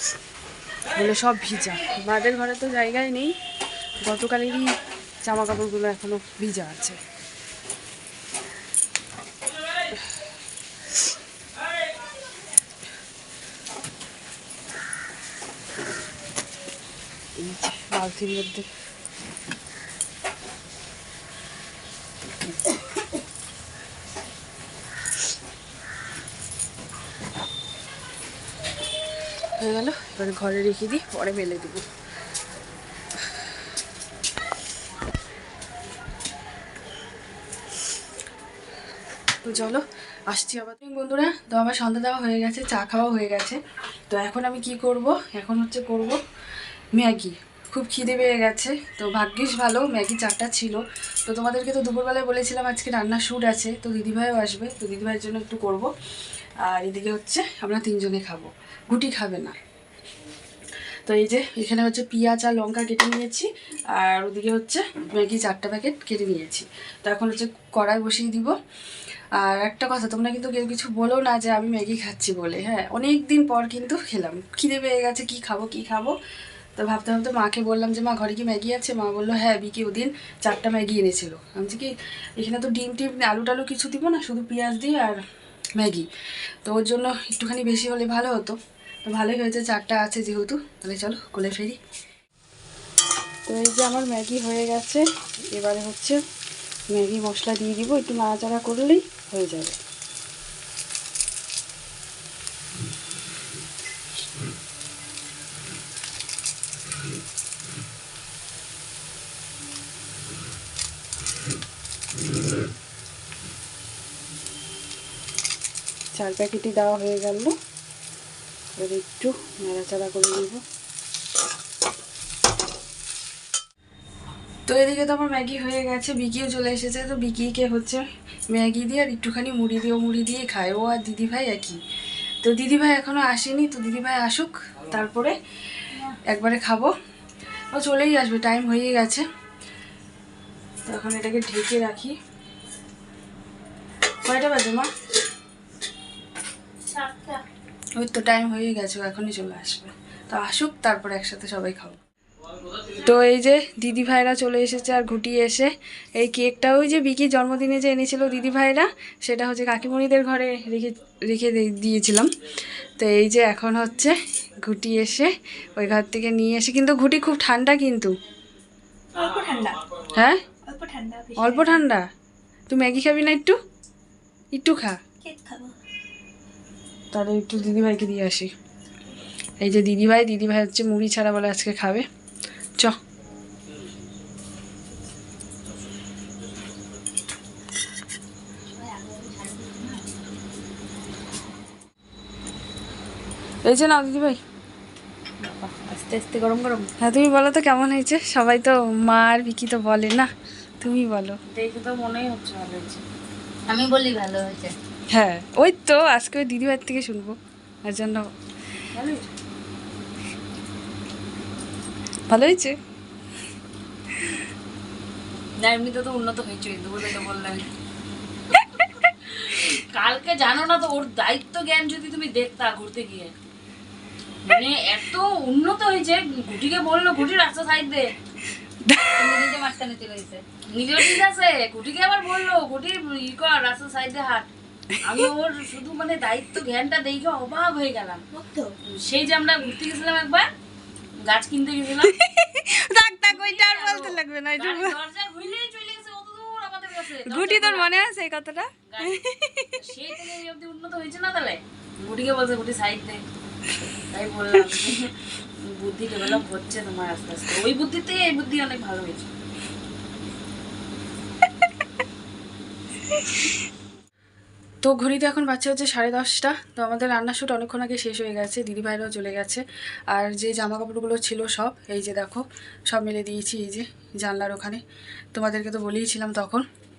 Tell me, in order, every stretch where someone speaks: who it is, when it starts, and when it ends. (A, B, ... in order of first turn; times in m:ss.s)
0:00.9-0:03.3 A
0:04.0-0:04.7 A
0:05.2-0:07.0 A
0:17.4-0:18.7 A
0:29.6-0:31.8 A
0:39.4-0:43.6 A
0:44.1-0:46.2 A
0:46.9-0:55.9 A
0:56.6-0:59.5 A
1:01.1-1:08.5 A
1:09.4-1:16.1 A
1:16.8-1:25.2 A
1:25.8-1:26.1 A
1:26.6-1:31.8 A
1:33.5-1:36.2 A
1:36.9-1:39.8 A
1:56.2-1:57.5 A
1:58.8-2:00.6 A
2:04.7-2:11.8 A
2:12.4-2:15.4 A
2:16.3-2:16.9 A
2:17.7-2:19.2 A
2:20.8-2:22.1 A
2:24.2-2:24.9 A
2:28.0-2:32.0 A
2:32.9-2:42.3 A
2:43.0-2:48.1 A
2:49.1-2:49.8 B
2:50.1-2:50.4 A
2:50.7-2:51.8 B
2:51.4-2:52.0 A
2:52.7-2:53.6 A
2:54.5-2:55.0 A
2:55.2-2:55.7 B
2:57.1-2:58.5 A
2:59.6-3:02.0 A
3:08.8-3:09.9 B
3:08.9-3:09.9 C
3:13.6-3:14.4 A
3:17.0-3:20.3 A
3:20.8-3:21.4 A
3:21.5-3:23.0 D
3:23.7-3:24.7 C
3:25.1-3:27.4 A
3:27.9-3:28.3 A
3:28.9-3:29.3 D
3:32.3-3:32.7 A
3:35.6-3:37.7 D
3:39.2-3:43.3 D
3:44.4-3:48.1 D
3:48.8-3:49.4 A
3:49.1-3:50.4 C
3:50.7-3:54.5 D
3:55.0-3:58.3 D
3:58.3-3:58.7 B
3:58.8-4:00.5 D
4:01.2-4:02.1 D
4:02.0-4:05.0 A
4:03.2-4:07.9 D
4:07.2-4:09.9 A
4:08.9-4:09.2 D
4:09.8-4:13.2 D
4:14.1-4:19.3 D
4:14.6-4:14.9 A
4:24.8-4:34.8 A
4:35.3-4:36.6 A